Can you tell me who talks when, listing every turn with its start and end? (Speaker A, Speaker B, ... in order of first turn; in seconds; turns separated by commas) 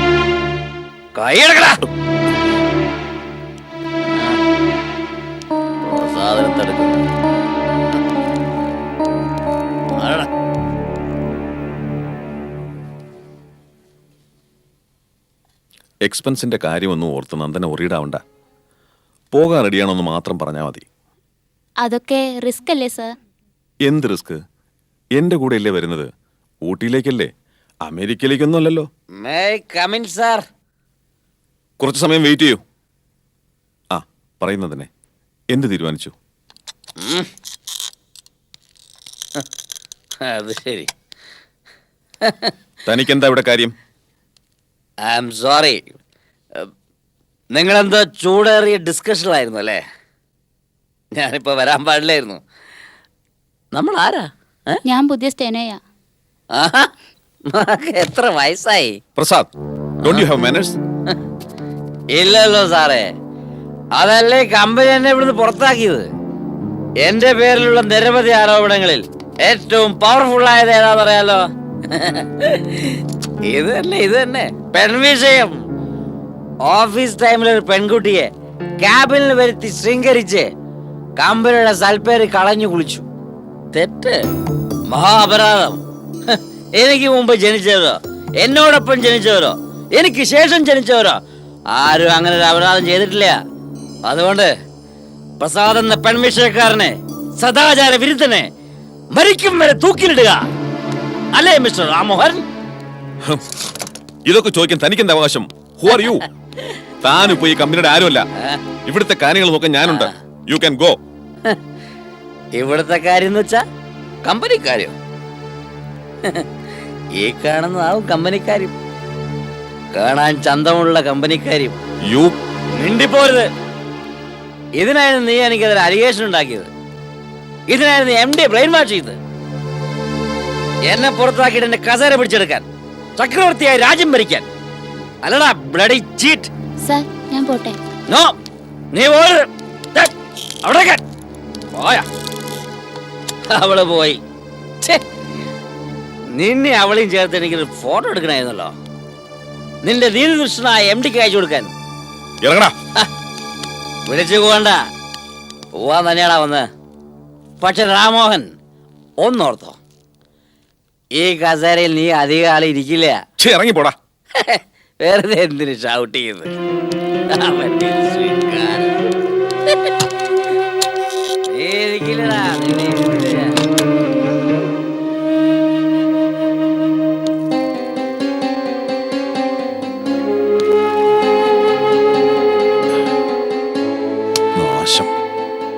Speaker A: 1.1-1.8, Speaker A: 5.8-7.0, Speaker A: 10.0-10.3, Speaker B: 16.0-18.2, Speaker B: 19.3-20.9, Speaker C: 21.8-23.1, Speaker B: 23.8-24.4, Speaker B: 25.1-26.1, Speaker B: 26.6-27.3, Speaker B: 27.8-28.9, Speaker A: 29.2-30.4, Speaker B: 31.8-32.6, Speaker B: 33.9-34.9, Speaker B: 35.5-36.1, Speaker A: 40.2-40.9, Speaker A: 42.2-42.5, Speaker B: 42.9-43.7, Speaker A: 45.0-45.8, Speaker A: 47.5-49.8, Speaker A: 51.1-52.4, Speaker A: 53.7-54.8, Speaker C: 54.8-55.8, Speaker A: 56.5-56.9, Speaker A: 57.5-59.0, Speaker B: 59.2-59.5, Speaker B: 60.0-60.8, Speaker A: 62.1-63.1, Speaker A: 64.0-66.1, Speaker A: 67.0-73.0, Speaker A: 73.5-75.6, Speaker A: 76.6-78.3, Speaker A: 78.8-80.5, Speaker A: 81.2-83.0, Speaker A: 83.7-84.2, Speaker A: 84.9-91.2, Speaker A: 91.7-93.4, Speaker A: 94.1-94.5, Speaker A: 95.4-98.5, Speaker A: 99.1-100.4, Speaker A: 101.3-102.4, Speaker B: 104.2-106.3, Speaker B: 107.0-108.2, Speaker B: 108.8-111.0, Speaker A: 109.8-110.1, Speaker A: 112.6-113.6, Speaker A: 114.2-114.9, Speaker A: 117.2-118.7, Speaker A: 119.9-121.8, Speaker B: 122.1-122.3, Speaker A: 122.8-123.5, Speaker A: 124.8-126.7, Speaker A: 127.7-129.2, Speaker A: 130.8-132.7, Speaker A: 133.2-134.5, Speaker A: 135.2-136.5, Speaker C: 136.8-137.8, Speaker A: 138.1-138.3, Speaker A: 138.9-140.1, Speaker A: 140.6-141.0, Speaker A: 141.7-142.1, Speaker A: 143.5-144.2, Speaker A: 146.3-148.7, Speaker A: 149.8-151.7, Speaker B: 152.4-152.7, Speaker A: 154.1-154.8, Speaker A: 155.8-156.7, Speaker A: 157.6-158.5, Speaker A: 159.2-159.8, Speaker A: 161.2-163.2, Speaker B: 163.4-163.9, Speaker A: 164.4-166.5, Speaker A: 167.3-168.9, Speaker A: 171.5-173.6, Speaker B: 184.6-185.1